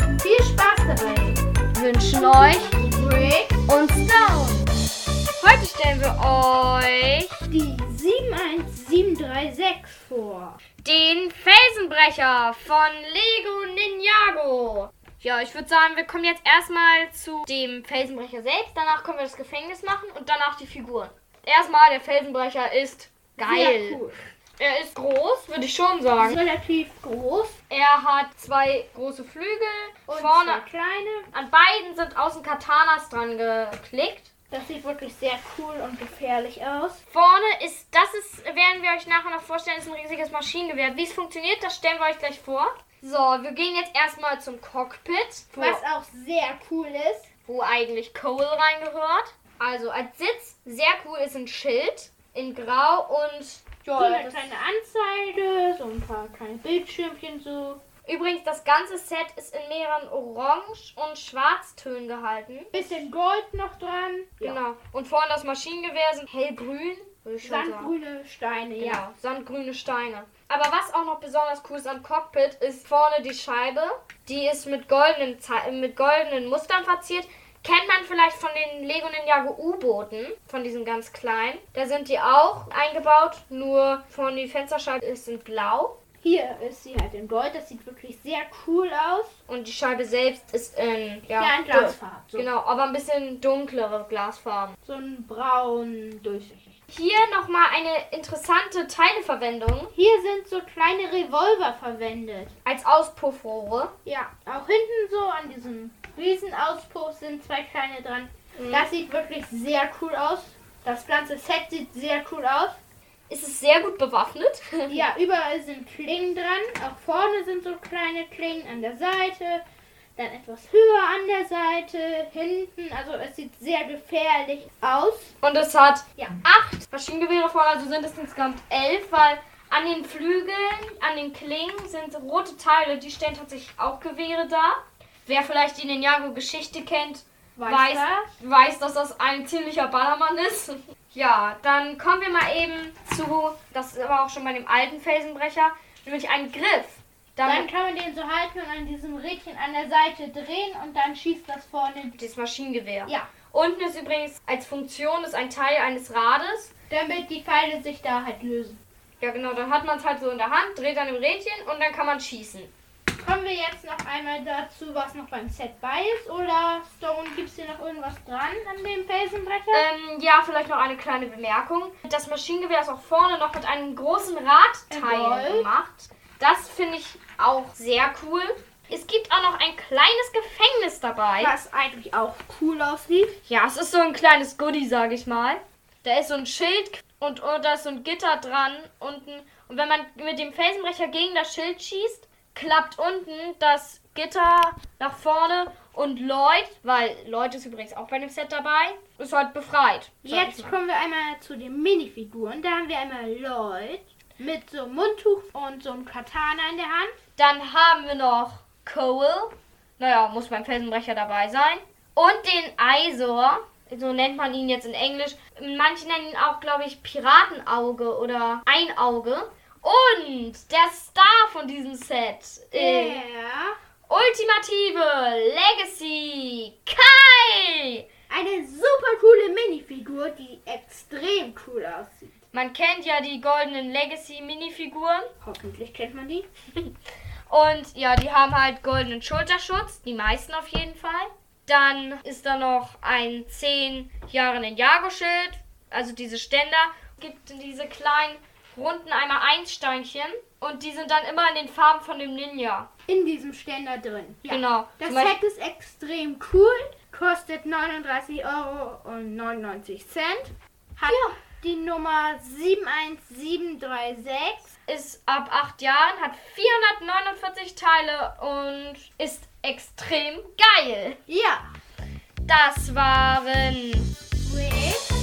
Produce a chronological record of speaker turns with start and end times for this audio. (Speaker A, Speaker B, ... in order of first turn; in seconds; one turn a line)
Speaker A: 0.2-1.4
Speaker B: 1.7-2.8
Speaker A: 2.5-3.6
Speaker B: 3.7-4.7
Speaker B: 5.4-7.5
Speaker A: 7.5-10.6
Speaker B: 10.8-24.0
Speaker A: 23.4-24.2
Speaker B: 24.6-26.4
Speaker A: 26.2-27.6
Speaker B: 27.7-30.6
Speaker A: 30.1-31.3
Speaker B: 31.3-34.3
Speaker A: 34.5-37.0
Speaker B: 37.1-45.8
Speaker A: 45.5-47.3
Speaker B: 47.5-54.5
Speaker A: 54.0-57.8
Speaker B: 58.0-62.7
Speaker A: 62.7-64.6
Speaker B: 64.4-67.9
Speaker A: 67.4-69.0
Speaker B: 68.8-86.0
Speaker A: 86.2-89.4
Speaker B: 89.5-94.8
Speaker A: 91.4-92.5
Speaker A: 94.8-96.8
Speaker B: 96.9-99.9
Speaker A: 99.9-102.5
Speaker B: 102.7-103.9
Speaker A: 104.0-112.8
Speaker B: 108.5-108.9
Speaker B: 113.3-115.1
Speaker A: 114.9-119.6
Speaker A: 120.2-125.3
Speaker B: 125.4-147.7
Speaker A: 137.6-138.3
Speaker A: 147.4-152.2
Speaker B: 152.2-156.7
Speaker A: 153.1-153.3
Speaker A: 156.9-158.8
Speaker B: 159.2-162.7
Speaker A: 163.2-169.8
Speaker B: 169.7-181.5
Speaker A: 174.9-175.7
Speaker A: 181.4-183.4
Speaker B: 183.5-200.8
Speaker A: 200.2-207.2
Speaker B: 207.4-223.2
Speaker A: 222.7-223.8
Speaker B: 224.1-228.0
Speaker A: 228.3-232.4
Speaker B: 232.5-235.3
Speaker A: 235.4-236.5
Speaker B: 237.5-252.9
Speaker A: 253.1-264.8
Speaker B: 254.5-255.4
Speaker B: 261.1-261.4
Speaker B: 264.9-271.2
Speaker A: 271.3-271.7
Speaker B: 272.4-274.1
Speaker A: 274.4-275.1